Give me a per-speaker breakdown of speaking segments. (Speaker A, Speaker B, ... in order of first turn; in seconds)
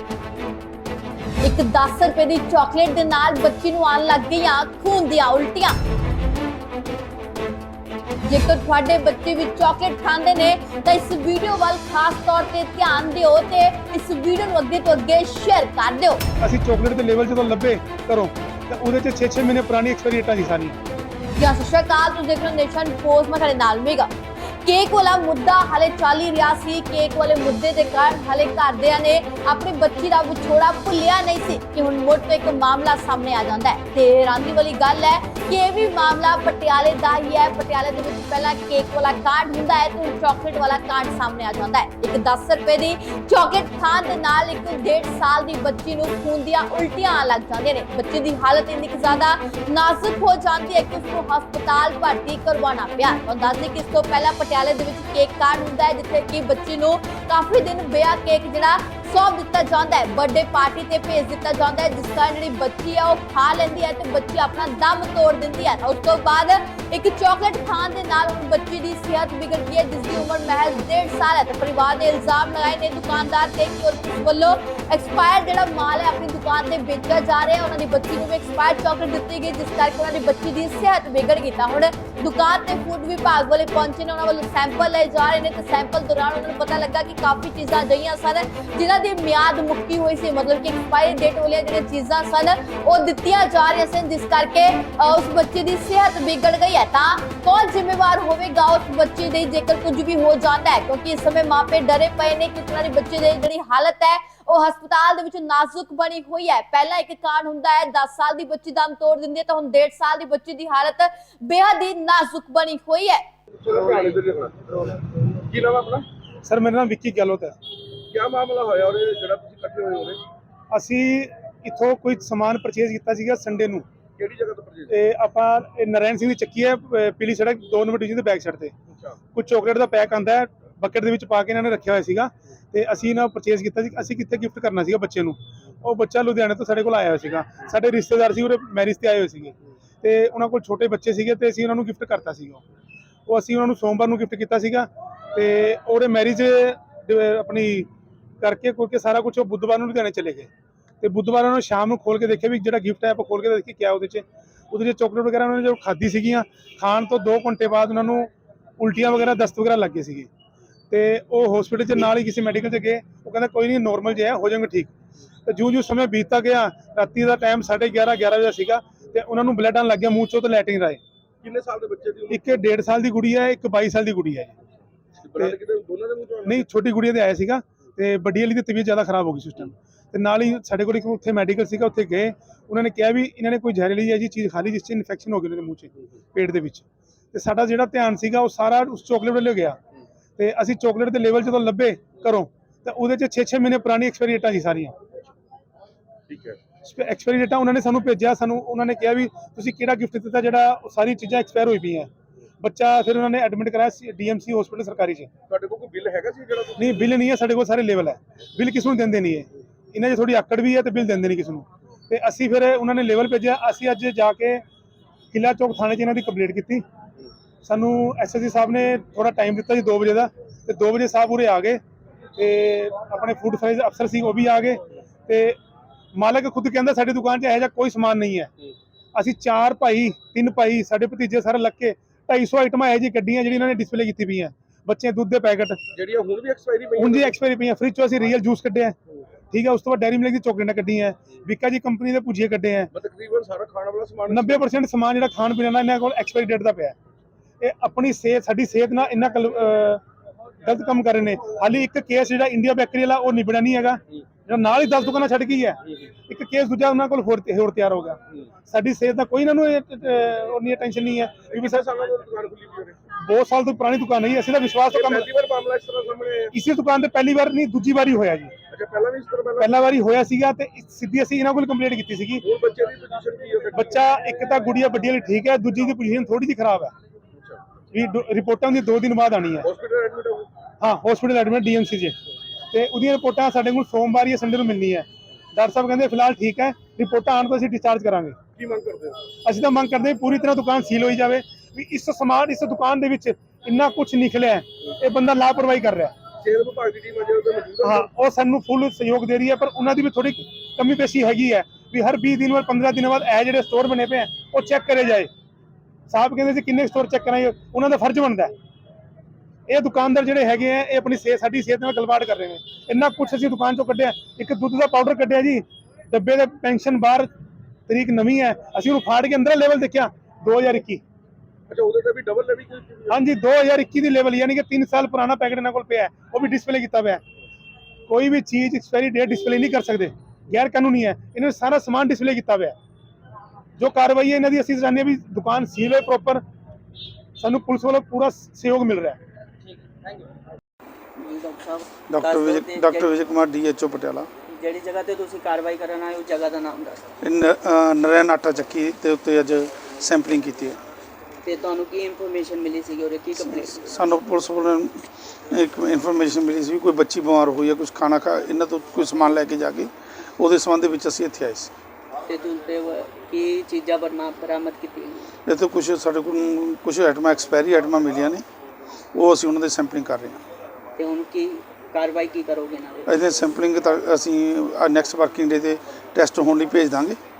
Speaker A: 1.4-5.8, 8.3-16.2, 21.4-24.1, 24.6-113.2
Speaker B: 16.4-20.7, 116.4-117.5, 120.7-123.8, 124.9-128.7, 129.3-142.6, 143.3-147.9, 148.4-150.5, 151.0-160.3, 160.9-164.9, 165.4-171.0, 172.3-174.5, 176.4-189.8, 190.4-194.9, 196.8-202.1, 202.6-205.3, 206.8-214.6, 215.3-216.8, 217.6-221.8, 222.3-225.6, 226.1-228.5, 229.1-235.8, 237.0-238.9, 239.5-242.9, 244.3-246.9, 247.6-250.0, 250.6-261.9, 263.2-265.3, 266.5-268.5, 269.6-272.4, 273.7-276.9, 277.9-279.7, 280.8-282.1, 282.7-288.4, 289.4-296.1, 297.8-305.3, 306.1-308.5, 309.7-317.3, 317.9-321.0, 323.1-327.2, 328.1-332.7, 333.8-336.4, 337.4-339.2
Speaker C: 113.6-116.1, 118.1-120.2, 124.2-124.9, 128.9-129.2, 171.4-172.6, 175.2-176.6, 196.3-196.6, 205.5-207.0, 235.9-237.4, 242.9-244.6, 261.5-263.0, 264.9-266.5, 268.7-269.7, 272.4-273.9, 277.3-277.6, 279.6-280.5, 288.6-289.3, 296.4-298.1, 321.7-323.1
Speaker D: 341.2-343.1, 344.5-347.0, 351.4-353.9, 362.3-365.3, 370.9-373.1
Speaker E: 342.1-344.3, 347.2-350.8, 353.4-361.7, 365.4-368.4, 369.1-370.4, 373.1-377.2